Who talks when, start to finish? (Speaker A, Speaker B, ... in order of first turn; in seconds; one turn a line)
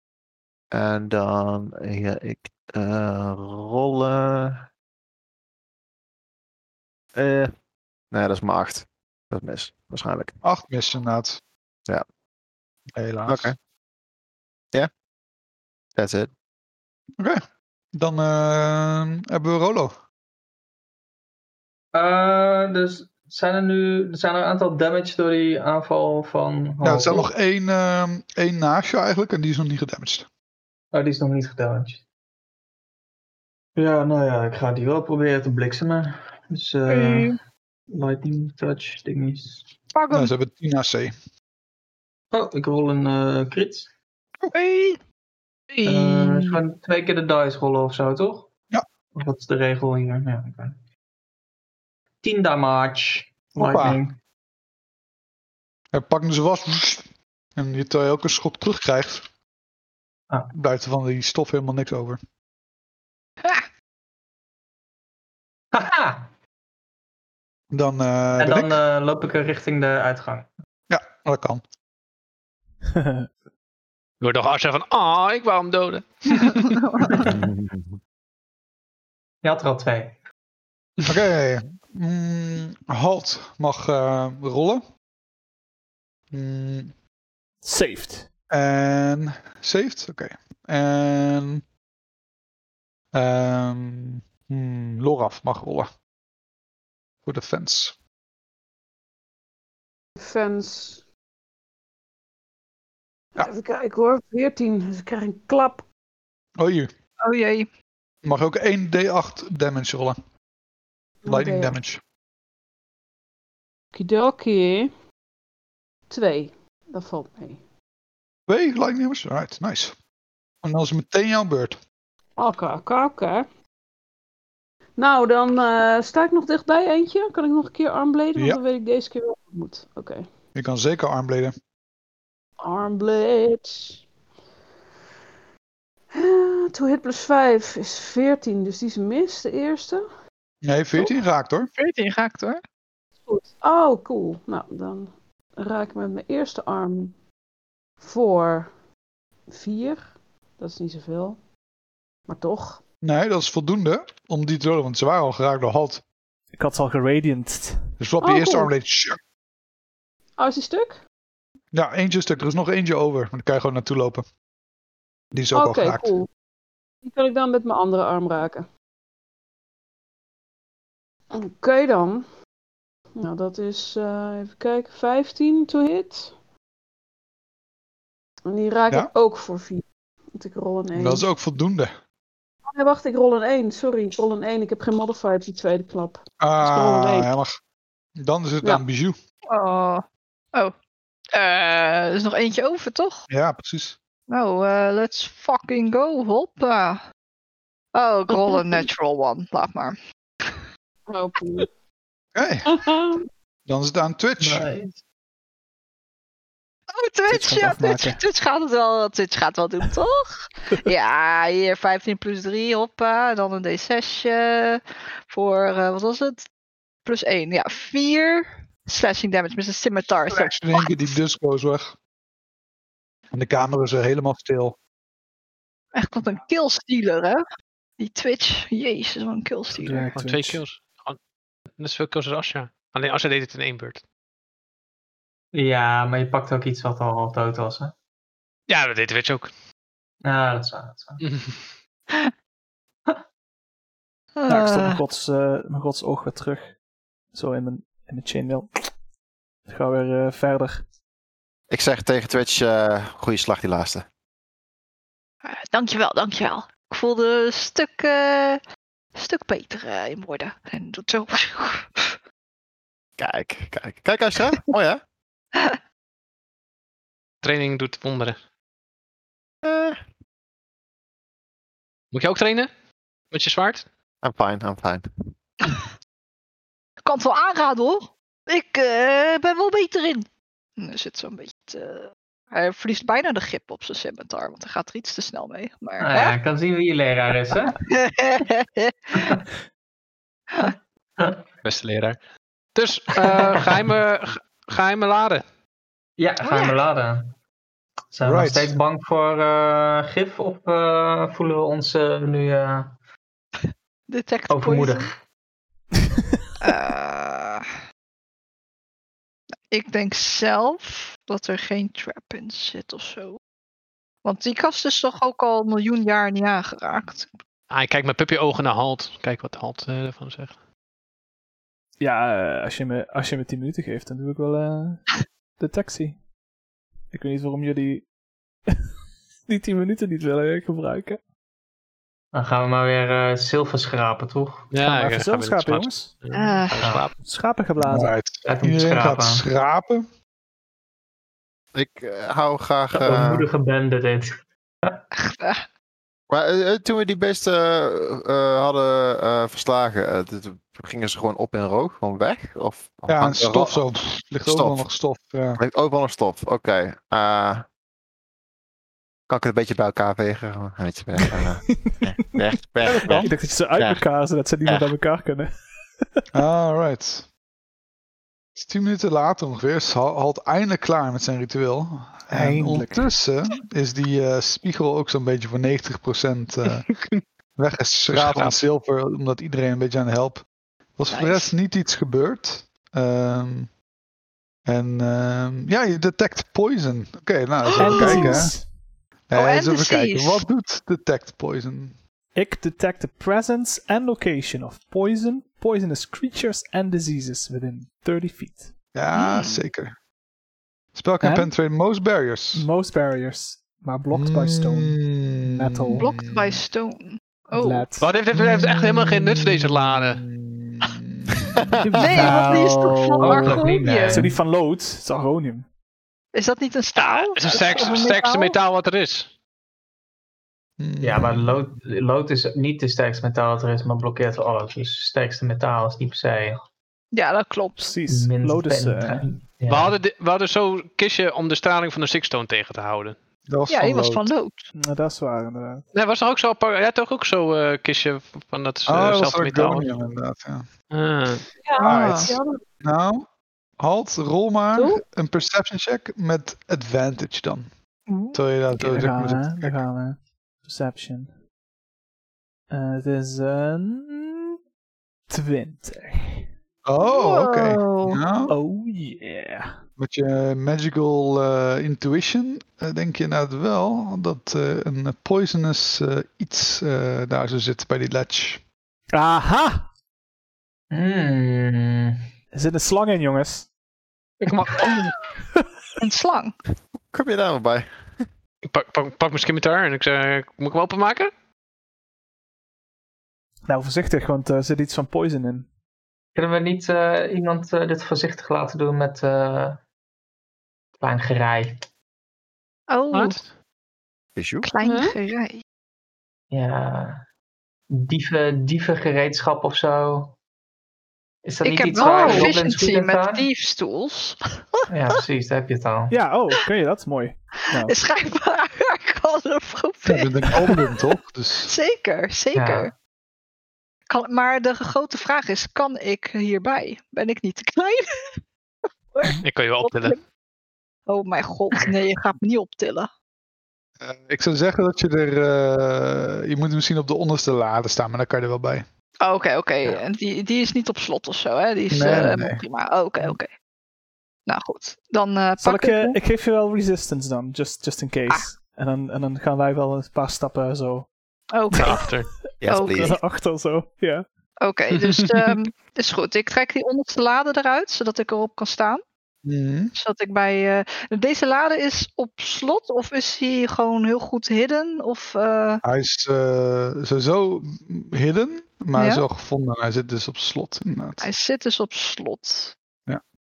Speaker A: 0.7-4.6
Speaker A: 7.2-7.5
Speaker A: 8.1-10.3
Speaker B: 10.4-11.4
Speaker B: 12.9-13.5
Speaker A: 13.3-13.6
Speaker A: 15.9-16.3
Speaker B: 17.9-19.9
Speaker C: 21.9-27.3
Speaker B: 26.8-30.3
Speaker C: 30.9-32.0
Speaker C: 33.8-37.3
Speaker D: 36.9-37.4
Speaker C: 37.9-39.7
Speaker D: 39.9-40.3
Speaker B: 40.1-41.1
Speaker C: 42.3-43.9
Speaker D: 44.5-45.0
Speaker D: 45.8-46.5
Speaker C: 45.8-48.5
Speaker C: 49.1-50.8
Speaker C: 52.2-54.2
Speaker B: 53.5-54.0
Speaker B: 55.9-59.2
Speaker B: 60.5-62.2
Speaker C: 65.7-66.3
Speaker B: 67.7-68.8
Speaker C: 68.4-70.5
Speaker B: 70.9-71.6
Speaker E: 72.9-73.3
Speaker F: 74.2-76.7
Speaker D: 76.5-77.1
Speaker A: 77.2-78.0
Speaker C: 79.4-80.2
Speaker B: 81.1-84.8
Speaker B: 86.3-86.9
Speaker E: 87.6-88.3
Speaker B: 88.5-91.6
Speaker B: 93.1-95.9
Speaker B: 97.2-97.9
Speaker G: 100.2-101.0
Speaker G: 103.3-105.8
Speaker B: 106.6-106.9
Speaker D: 107.2-107.7
Speaker B: 108.2-110.2
Speaker G: 111.2-111.8
Speaker B: 111.3-112.0
Speaker G: 113.9-114.9
Speaker G: 116.1-117.6
Speaker B: 118.5-119.9
Speaker B: 120.6-121.8
Speaker G: 122.4-123.5
Speaker G: 125.0-130.3
Speaker B: 130.5-131.5
Speaker G: 132.6-134.0
Speaker G: 136.1-140.0
Speaker B: 140.6-141.7
Speaker D: 141.7-142.6
Speaker G: 143.2-147.2
Speaker G: 148.0-148.7
Speaker G: 149.5-151.4
Speaker G: 152.3-152.8
Speaker B: 153.0-156.0
Speaker E: 156.5-157.8
Speaker B: 158.0-159.2
Speaker G: 158.2-158.7
Speaker G: 160.4-161.0
Speaker B: 161.7-164.2
Speaker B: 165.3-166.1
Speaker G: 165.5-166.3
Speaker G: 167.0-168.7
Speaker G: 171.3-172.2
Speaker G: 173.2-176.3
Speaker G: 178.5-179.8
Speaker G: 180.3-181.3
Speaker B: 180.9-181.9
Speaker G: 182.7-187.3
Speaker B: 186.4-187.6
Speaker B: 188.2-189.2
Speaker D: 189.5-190.0
Speaker D: 191.3-193.2
Speaker B: 193.3-194.0
Speaker D: 194.3-197.0
Speaker D: 197.9-200.6
Speaker G: 198.3-198.8
Speaker G: 201.1-201.7
Speaker B: 202.3-202.7
Speaker G: 202.6-203.2
Speaker B: 203.7-204.7
Speaker C: 204.4-205.0
Speaker D: 206.9-216.4
Speaker E: 207.3-208.2
Speaker D: 217.0-221.1
Speaker B: 220.3-221.9
Speaker B: 223.3-224.8
Speaker D: 225.9-227.4
Speaker D: 228.0-230.1
Speaker E: 229.8-230.6
Speaker F: 230.1-231.2
Speaker F: 231.8-234.0
Speaker C: 235.5-237.9
Speaker F: 238.7-239.5
Speaker C: 240.2-241.2
Speaker F: 241.2-241.7
Speaker D: 244.4-245.0
Speaker E: 244.5-246.7
Speaker E: 247.3-248.8
Speaker E: 249.7-250.8
Speaker A: 251.7-254.1
Speaker D: 255.4-258.6
Speaker D: 259.1-262.1
Speaker A: 263.2-265.0
Speaker F: 267.4-268.4
Speaker A: 269.6-270.0
Speaker F: 272.1-272.7
Speaker F: 273.3-273.9
Speaker A: 274.2-275.1
Speaker D: 277.0-280.3
Speaker D: 280.8-286.4
Speaker C: 286.0-287.8
Speaker D: 287.9-289.3
Speaker C: 291.2-291.4
Speaker F: 291.6-292.2
Speaker F: 292.7-295.4
Speaker C: 296.2-297.3
Speaker D: 296.4-296.8
Speaker C: 298.1-302.9
Speaker B: 298.2-298.7
Speaker D: 304.1-305.1
Speaker C: 304.5-305.1
Speaker D: 306.6-307.6
Speaker D: 309.7-313.4
Speaker D: 314.2-317.3
Speaker F: 317.7-320.6
Speaker E: 322.0-326.2
Speaker E: 327.1-328.1
Speaker E: 329.5-331.2
Speaker C: 332.3-334.7
Speaker F: 334.7-337.2
Speaker E: 334.8-336.1
Speaker D: 336.3-336.9
Speaker C: 336.8-337.1
Speaker E: 337.2-338.1
Speaker B: 337.8-340.0
Speaker C: 338.4-339.4
Speaker A: 341.7-343.5
Speaker C: 342.9-345.0
Speaker D: 345.1-345.7
Speaker A: 346.3-353.8
Speaker B: 353.1-355.6
Speaker A: 354.4-354.8
Speaker A: 355.6-357.6
Speaker A: 359.3-364.0
Speaker E: 361.2-365.5
Speaker B: 366.3-367.3
Speaker B: 368.6-376.9
Speaker E: 372.3-373.1
Speaker F: 376.7-377.2
Speaker B: 377.6-380.4
Speaker F: 378.1-378.6
Speaker B: 381.0-383.7
Speaker D: 381.1-381.5
Speaker B: 384.6-388.5
Speaker D: 387.7-388.5
Speaker E: 387.8-388.7
Speaker B: 389.3-392.0
Speaker D: 389.3-390.4
Speaker E: 392.3-398.7
Speaker B: 398.9-399.9
Speaker D: 399.1-399.6
Speaker B: 400.9-402.6
Speaker E: 401.2-401.5
Speaker E: 402.5-406.0
Speaker B: 404.1-406.6
Speaker D: 406.0-407.9
Speaker E: 407.5-408.1
Speaker F: 408.0-410.2
Speaker B: 408.3-411.6
Speaker E: 411.8-415.6
Speaker D: 412.0-414.2
Speaker C: 412.2-412.7
Speaker C: 413.2-414.3
Speaker B: 413.8-414.2
Speaker D: 416.3-418.6
Speaker F: 417.0-419.3
Speaker B: 420.8-421.7
Speaker C: 421.0-426.6
Speaker D: 427.1-427.9
Speaker E: 427.8-429.3
Speaker C: 428.1-429.9
Speaker F: 429.7-433.2
Speaker B: 433.5-434.3
Speaker D: 433.7-434.6
Speaker E: 434.7-435.8
Speaker F: 435.9-439.9
Speaker B: 438.9-440.7
Speaker F: 440.9-441.5
Speaker G: 441.6-442.6
Speaker B: 441.8-443.3
Speaker D: 441.8-442.3
Speaker B: 443.8-447.7
Speaker G: 444.7-445.0
Speaker D: 448.1-448.4
Speaker B: 448.3-449.8
Speaker E: 448.8-451.3
Speaker E: 452.7-454.6
Speaker E: 455.3-456.5
Speaker B: 456.8-458.5
Speaker D: 457.0-458.2
Speaker E: 458.5-459.8
Speaker B: 460.0-468.6
Speaker E: 469.1-469.9
Speaker C: 470.9-472.2
Speaker E: 472.5-473.7
Speaker F: 474.4-475.1
Speaker D: 476.0-476.5
Speaker A: 477.1-478.0
Speaker F: 478.6-481.3
Speaker E: 483.7-485.7
Speaker C: 486.3-489.8
Speaker C: 491.0-491.8
Speaker D: 492.9-493.4
Speaker F: 493.1-493.5
Speaker A: 494.4-494.7
Speaker D: 494.6-495.6
Speaker G: 494.8-495.2
Speaker C: 496.5-497.2
Speaker C: 497.9-500.4
Speaker C: 501.4-503.4
Speaker D: 501.6-504.9
Speaker G: 502.0-502.5
Speaker C: 504.9-506.1
Speaker E: 506.1-507.9
Speaker D: 507.7-510.9
Speaker B: 510.0-511.7
Speaker D: 511.6-512.9
Speaker C: 512.5-512.9
Speaker D: 514.1-518.4
Speaker D: 519.1-520.2
Speaker F: 519.4-520.1
Speaker D: 521.1-523.1
Speaker B: 524.0-528.8
Speaker D: 529.2-533.5
Speaker B: 531.9-532.6
Speaker D: 534.5-536.2
Speaker E: 535.6-541.1
Speaker D: 541.5-542.1
Speaker E: 541.7-542.0
Speaker F: 541.7-542.3
Speaker A: 542.6-543.2
Speaker D: 542.7-543.1
Speaker E: 542.9-544.2
Speaker D: 544.6-549.0
Speaker F: 545.0-545.5
Speaker B: 549.4-549.9
Speaker D: 549.9-555.8
Speaker B: 555.8-561.3
Speaker D: 558.9-559.2
Speaker D: 561.2-562.7